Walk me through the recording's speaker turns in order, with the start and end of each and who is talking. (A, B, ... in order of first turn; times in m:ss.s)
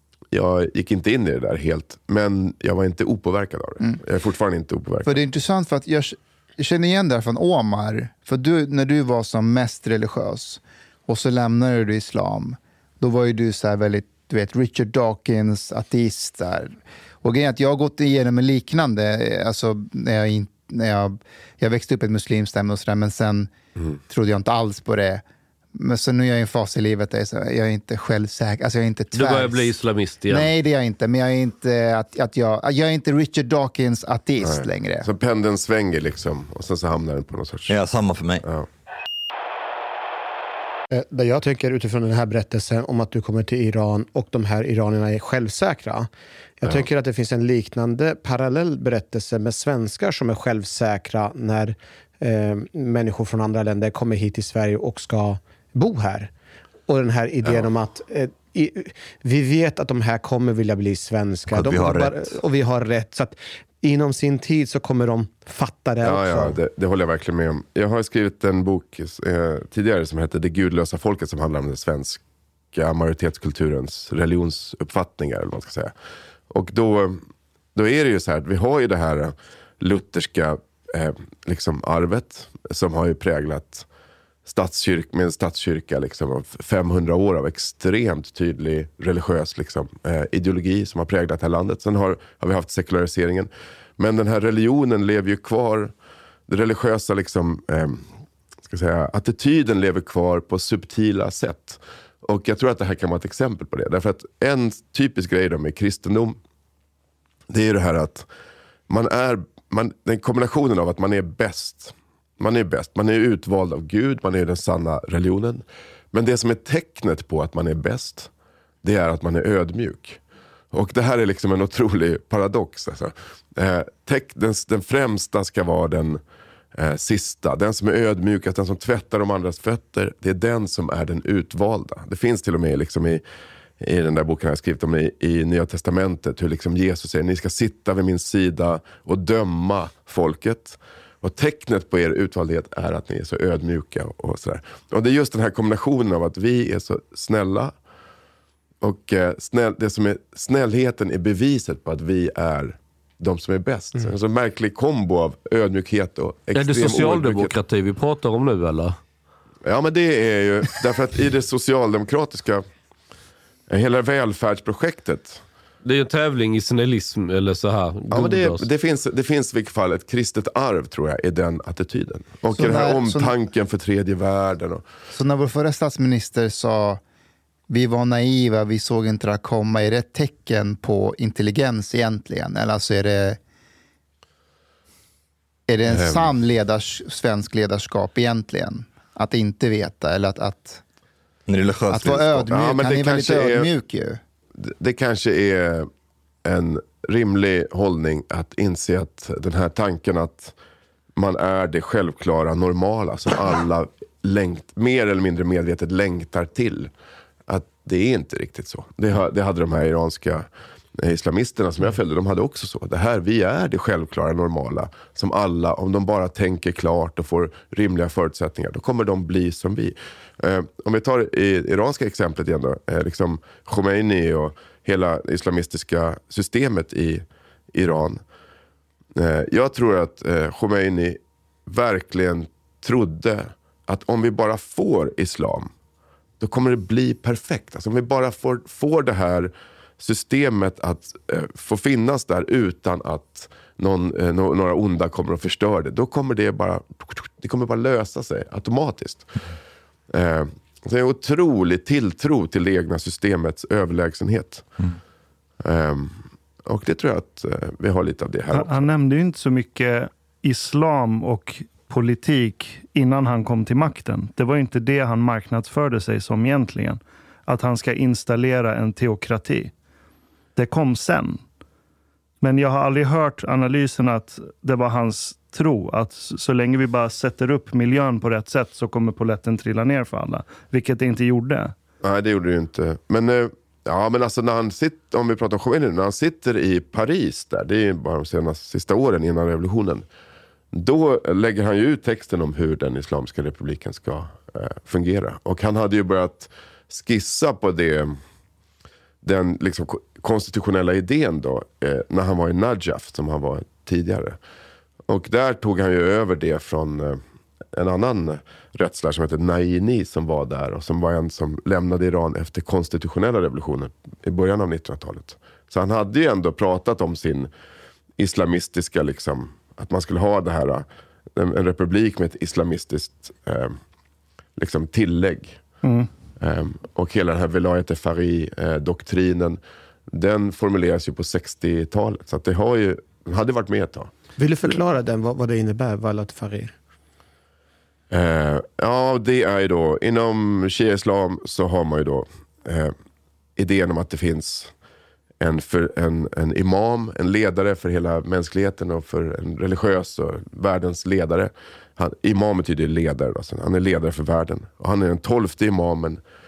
0:00.3-0:05.2 A
0:05.0-0:23.5 B
0:24.1-0:25.2 B
0:25.8-0:29.8 B
0:29.1-0:30.5 C
0:30.3-0:35.1 B
0:34.4-0:37.7 A
0:37.7-0:38.5 D
0:40.9-0:56.3 E
0:56.9-1:06.6 E
1:01.5-1:02.3 D
1:06.0-1:12.2 A
1:12.7-1:15.9 A
1:16.5-1:17.2 A
1:17.8-1:23.9 A
1:24.5-1:35.9 A
1:36.5-1:38.1 A
1:38.7-1:46.4 A
1:47.5-1:48.3 A
1:48.9-1:58.3 A
1:58.8-2:00.2 A
2:00.7-2:06.2 A
2:06.8-2:13.2 A
2:13.8-2:27.7 A
2:28.8-2:37.6 A
2:36.5-2:39.0 C
2:39.6-2:42.6 A
2:43.7-2:45.4 A
2:45.8-2:48.6 C
2:48.1-2:54.8 A
2:52.6-2:53.3 B
2:55.1-2:57.0 B
2:57.7-3:03.4 B
3:05.7-3:10.8 B
3:05.9-3:06.3 A
3:11.5-3:12.5 D
3:11.9-3:14.2 B
3:12.5-3:13.7 A
3:14.6-3:15.9 A
3:16.4-3:20.5 A
3:21.2-3:26.9 A
3:27.5-3:30.5 A
3:31.0-3:48.2 A
3:49.2-3:55.7 A
3:56.4-4:09.3 A
4:10.1-4:14.7 A
4:15.6-4:18.9 A
4:18.5-4:29.7 F
4:30.6-4:31.4 F
4:32.4-4:41.8 F
4:42.0-4:50.0 A
4:50.7-4:58.2 A
4:59.2-5:04.4 A
5:05.1-5:07.2 A
5:07.7-5:17.5 A
5:18.2-5:20.8 A
5:21.4-5:23.8 A
5:24.6-5:25.6 A
5:25.8-5:26.1 F
5:26.4-5:29.6 A
5:30.1-5:34.1 A
5:34.4-5:36.7 E
5:38.1-5:42.9 A
5:43.6-5:44.7 A
5:45.4-5:56.2 A